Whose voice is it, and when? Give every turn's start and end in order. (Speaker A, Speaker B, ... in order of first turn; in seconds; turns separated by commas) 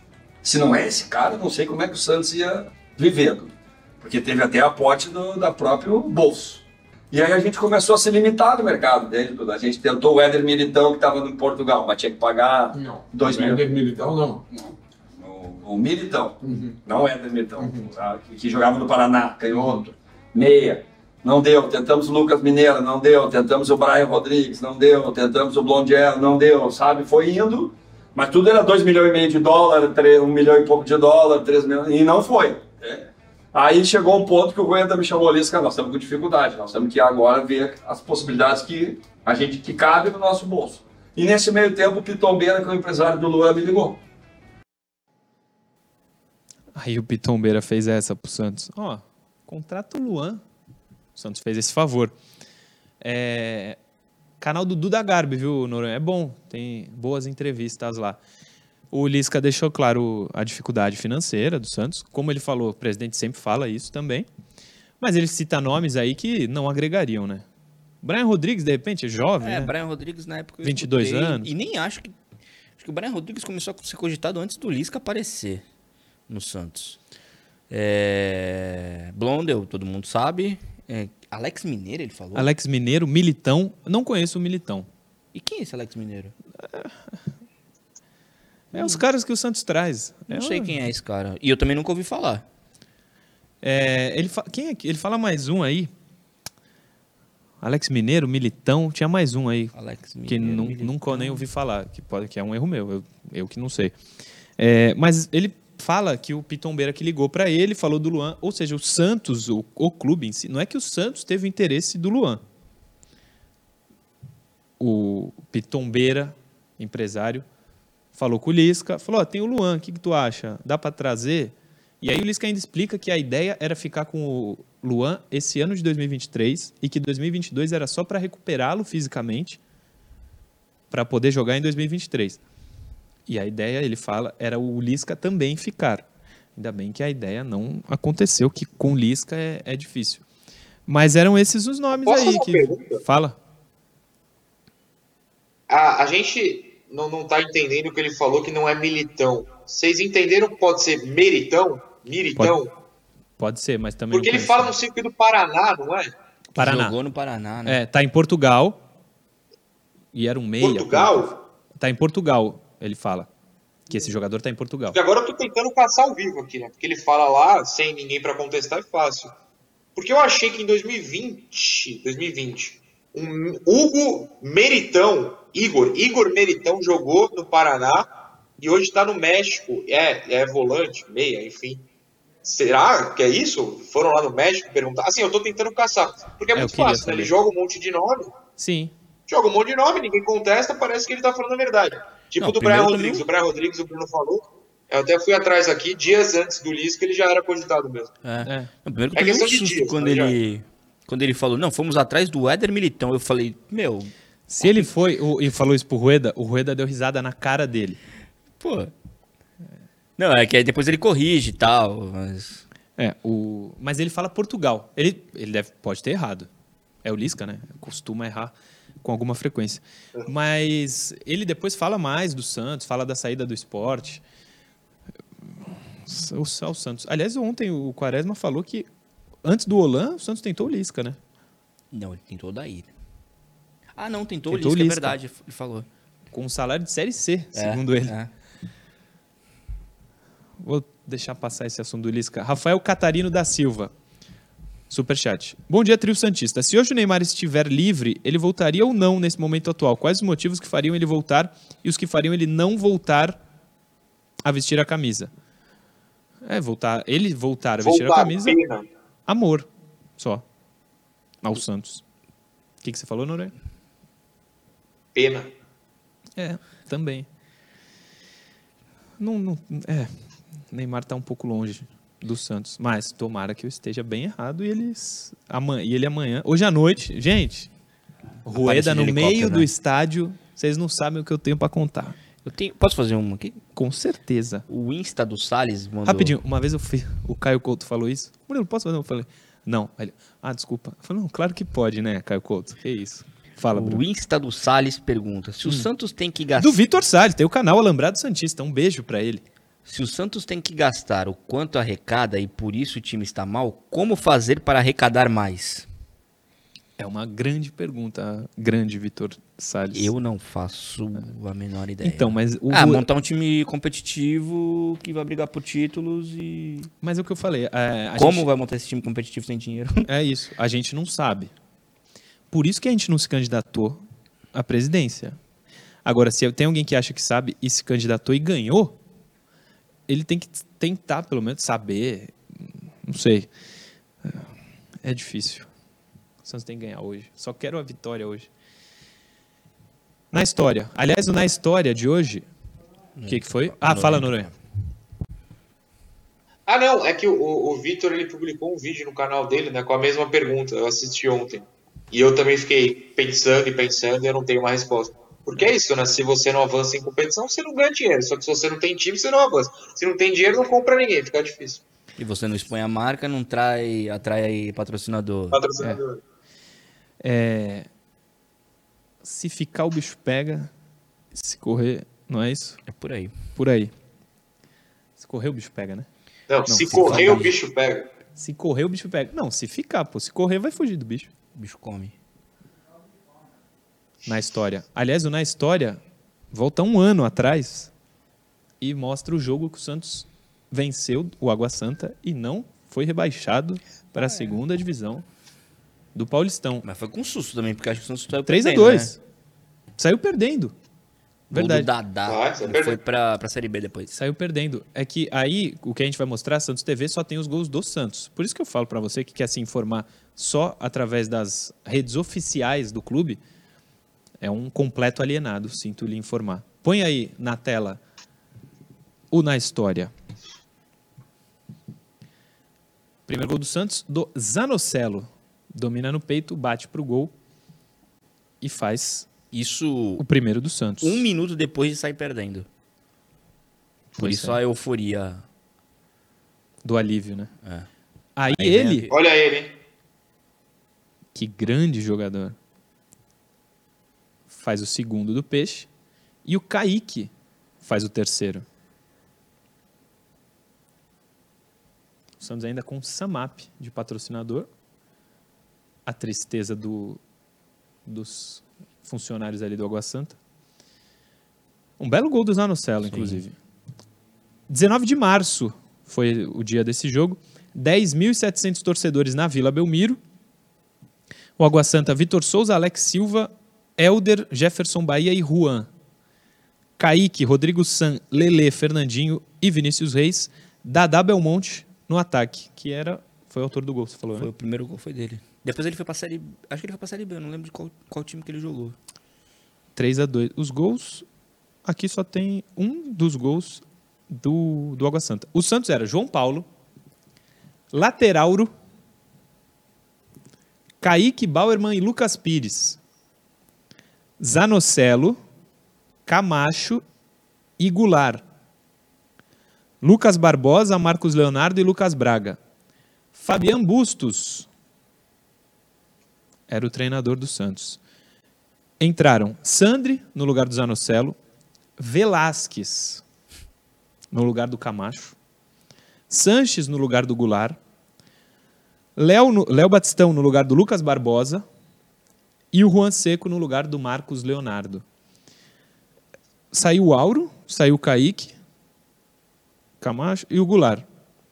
Speaker A: 0.4-13.7, Speaker B: 12.7-14.4, Speaker A: 14.5-44.0, Speaker B: 16.4-16.8, Speaker B: 17.6-17.9, Speaker C: 46.7-50.4, Speaker C: 51.1-52.1, Speaker C: 53.0-53.8, Speaker C: 54.4-58.2, Speaker C: 58.9-64.3, Speaker C: 65.0-67.4, Speaker C: 68.0-69.7, Speaker D: 69.4-72.1, Speaker C: 70.6-71.5, Speaker D: 72.8-75.6, Speaker D: 76.3-77.0, Speaker D: 77.7-82.5, Speaker C: 82.3-84.9, Speaker D: 85.3-86.3, Speaker C: 86.6-87.2, Speaker D: 88.7-89.0, Speaker C: 88.7-90.8, Speaker D: 90.3-92.4, Speaker C: 93.6-95.9, Speaker C: 97.6-99.7, Speaker D: 99.7-101.5, Speaker C: 100.3-103.9, Speaker C: 104.6-112.4, Speaker C: 114.8-117.4, Speaker C: 118.1-129.6, Speaker C: 130.9-132.4, Speaker C: 133.3-140.2, Speaker C: 140.9-143.4, Speaker E: 141.9-143.0, Speaker E: 145.7-152.7, Speaker C: 153.4-154.7, Speaker E: 154.1-156.1, Speaker C: 156.5-157.0, Speaker D: 156.6-157.8, Speaker C: 157.7-158.8, Speaker C: 160.1-163.3, Speaker E: 160.6-161.3, Speaker C: 163.9-165.0, Speaker E: 164.9-169.3, Speaker E: 169.9-181.8, Speaker E: 182.4-188.3, Speaker C: 186.5-187.3, Speaker C: 188.6-188.9, Speaker E: 189.3-198.1, Speaker D: 192.4-193.2, Speaker D: 198.2-204.9, Speaker C: 198.4-198.7, Speaker E: 199.1-200.3, Speaker C: 204.5-208.0, Speaker D: 208.6-208.9, Speaker D: 210.2-212.6, Speaker C: 213.0-216.5, Speaker C: 217.0-224.2, Speaker C: 226.0-228.9, Speaker C: 229.4-231.2, Speaker D: 231.9-232.9, Speaker D: 233.9-235.9, Speaker C: 234.5-235.2, Speaker C: 236.3-238.1, Speaker D: 237.5-238.3, Speaker C: 240.6-243.9, Speaker C: 244.9-253.4, Speaker C: 254.4-255.3, Speaker C: 256.4-258.6, Speaker E: 257.8-258.9, Speaker C: 259.3-260.4, Speaker C: 261.4-262.0, Speaker C: 262.8-263.5, Speaker E: 265.1-265.5, Speaker C: 266.4-267.3, Speaker C: 269.2-270.1, Speaker C: 270.7-277.7, Speaker C: 278.4-282.2, Speaker D: 278.5-279.7, Speaker D: 282.4-283.6, Speaker C: 283.7-284.6, Speaker D: 284.7-286.4, Speaker C: 286.0-294.0, Speaker D: 293.7-296.8, Speaker C: 296.6-299.4, Speaker D: 299.9-305.9, Speaker C: 307.0-310.1, Speaker D: 309.9-316.9, Speaker C: 312.0-313.0, Speaker C: 317.0-318.5, Speaker D: 318.2-320.1, Speaker C: 320.1-321.5, Speaker C: 322.5-324.0, Speaker C: 324.5-325.4, Speaker C: 326.0-329.0, Speaker C: 330.1-333.5, Speaker C: 335.0-335.7, Speaker C: 336.4-338.5, Speaker C: 340.3-342.4, Speaker D: 343.2-344.5, Speaker C: 343.3-344.5, Speaker E: 346.7-361.8, Speaker D: 362.2-365.6, Speaker E: 365.5-366.2, Speaker C: 367.2-367.9, Speaker C: 369.2-370.7, Speaker C: 371.3-372.8, Speaker D: 372.9-373.3, Speaker C: 373.6-373.9, Speaker C: 375.2-376.1, Speaker E: 376.5-378.1, Speaker C: 376.6-377.4, Speaker D: 376.9-377.5, Speaker C: 378.4-381.3, Speaker D: 381.5-382.1, Speaker C: 384.2-386.0, Speaker C: 386.5-387.9, Speaker C: 388.8-395.2, Speaker D: 394.2-394.5, Speaker C: 396.1-396.8, Speaker D: 396.8-399.1, Speaker C: 398.5-399.2, Speaker C: 400.0-400.7, Speaker C: 401.5-401.9, Speaker D: 401.5-404.1, Speaker E: 402.2-403.0, Speaker C: 404.1-413.4, Speaker C: 414.4-418.0, Speaker C: 419.3-420.1, Speaker C: 423.3-427.3, Speaker C: 428.6-429.3, Speaker D: 429.5-430.2, Speaker C: 430.2-431.2, Speaker D: 431.0-432.7, Speaker C: 434.2-434.6, Speaker D: 434.2-435.4, Speaker C: 436.8-437.5, Speaker D: 437.6-437.9, Speaker C: 438.4-439.1, Speaker D: 438.5-439.2, Speaker E: 439.1-439.7, Speaker C: 441.3-442.5, Speaker C: 444.5-445.9, Speaker C: 446.4-448.6, Speaker C: 452.4-454.7, Speaker C: 456.1-457.2, Speaker C: 458.1-460.4, Speaker C: 462.0-463.5, Speaker D: 463.0-463.4, Speaker C: 464.7-470.2, Speaker C: 471.6-475.9, Speaker C: 477.0-484.5, Speaker D: 484.4-488.9, Speaker C: 489.9-491.2, Speaker C: 491.8-496.7, Speaker C: 497.9-498.7, Speaker C: 501.0-503.0, Speaker C: 504.4-505.4, Speaker C: 506.3-507.0, Speaker C: 507.8-508.4, Speaker C: 510.0-512.6, Speaker C: 513.3-514.7, Speaker C: 516.7-518.0, Speaker C: 519.0-521.4, Speaker C: 522.0-523.2, Speaker C: 524.3-525.3, Speaker C: 526.3-527.8, Speaker C: 529.1-531.6, Speaker C: 532.7-535.0, Speaker C: 536.7-538.5, Speaker C: 540.0-541.0